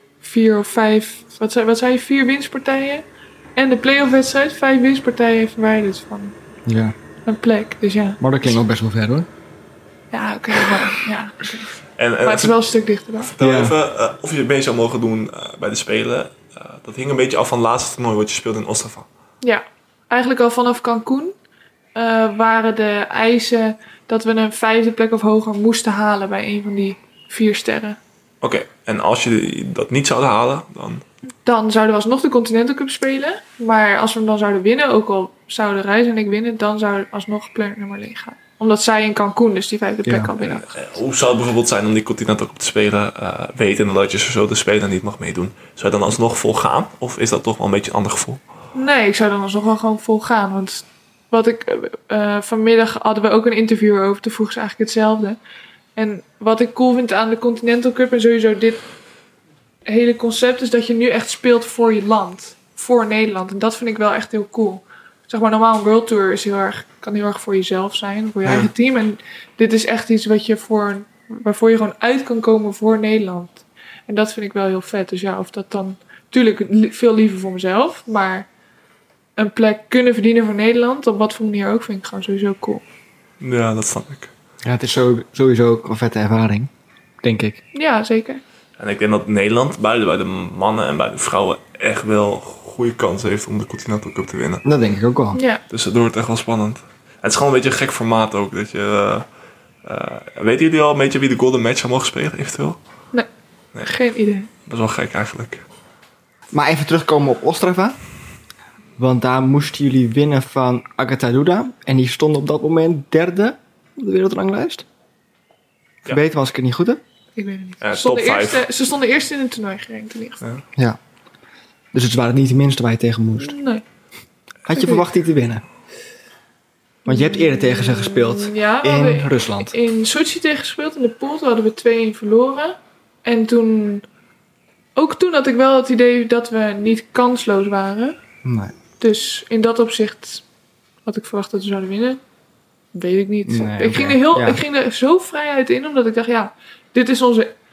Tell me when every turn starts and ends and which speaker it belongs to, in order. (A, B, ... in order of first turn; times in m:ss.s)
0:00.2-0:03.0 A
0:03.6-0:06.4 A
0:06.7-0:07.0 B
0:07.2-0:08.2 A
0:08.2-0:09.3 B
0:10.1-0:13.3 A
0:12.0-0:12.6 C
0:13.3-0:19.1 C
0:13.4-0:13.8 B
0:19.4-0:21.4 A
0:22.0-0:28.0 A
0:28.4-0:31.0 C
0:31.4-0:40.7 A
0:40.0-0:40.3 B
0:40.7-0:48.4 C
0:48.7-0:55.4 A
0:56.0-0:58.8 A
0:59.9-1:18.5 A
1:19.4-1:22.8 A
1:23.4-1:24.3 C
1:24.6-1:26.7 B
1:27.2-1:27.6 B
1:27.7-1:28.4 A
1:28.8-1:34.6 C
1:34.6-1:35.4 B
1:35.3-1:35.6 A
1:35.7-1:39.2 C
1:39.8-1:42.8 C
1:43.8-1:44.5 A
1:44.6-1:45.6 C
1:46.5-1:48.0 B
1:49.0-1:54.8 B
1:56.1-1:57.0 B
1:57.4-2:00.4 A
1:57.8-1:58.6 C
2:01.9-2:03.6 B
2:03.4-2:03.8 A
2:04.6-2:05.6 B
2:04.7-2:05.0 A
2:07.1-2:09.7 B
2:07.1-2:14.0 A
2:15.0-2:18.2 A
2:18.4-2:18.7 B
2:19.0-2:20.4 A
2:21.0-2:22.2 A
2:22.9-2:27.5 A
2:23.5-2:24.6 B